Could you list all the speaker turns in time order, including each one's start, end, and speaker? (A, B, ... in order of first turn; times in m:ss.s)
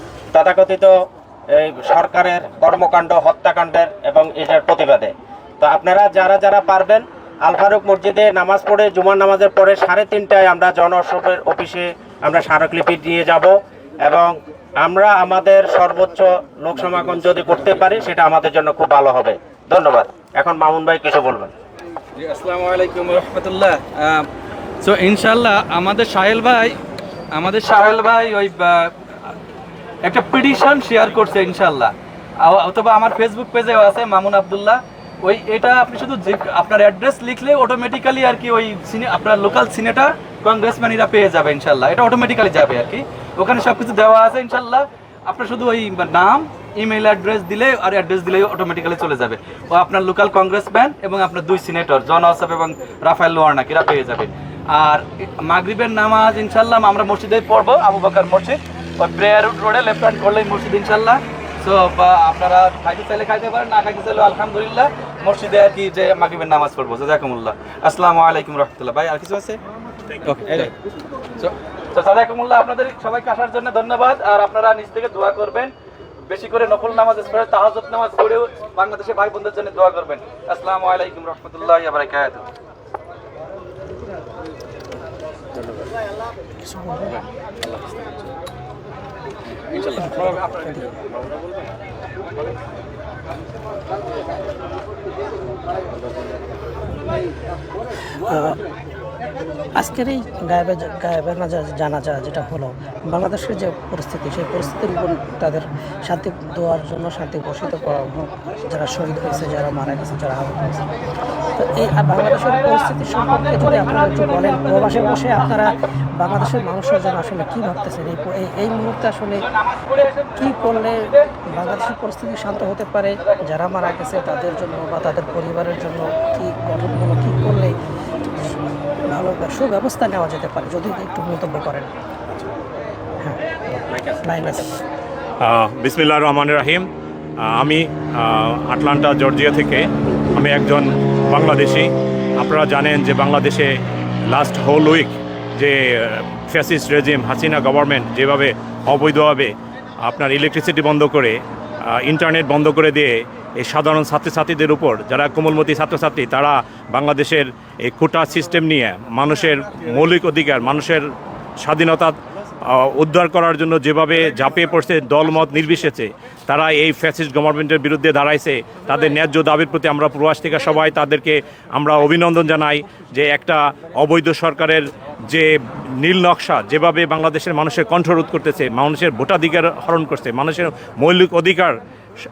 0:00.3-0:21.5 A
0:22.2-0:24.3 B
0:24.8-0:26.7 B
0:27.3-0:29.3 B
0:30.0-1:09.6 B
1:10.2-1:10.7 B
1:11.4-1:15.7 B
1:16.2-1:22.5 B
1:26.6-1:27.2 C
1:27.6-1:28.1 B
1:29.7-1:30.5 B
1:30.0-1:31.0 C
1:38.2-1:38.6 C
1:39.7-1:51.0 C
1:51.6-1:59.5 C
1:54.3-1:55.1 B
1:59.4-2:01.2 B
2:00.4-2:07.8 C
2:09.0-2:11.9 C
2:13.2-2:14.8 C
2:15.4-2:16.9 D
2:17.4-2:23.7 D
2:24.3-2:41.1 D
2:41.6-3:01.8 D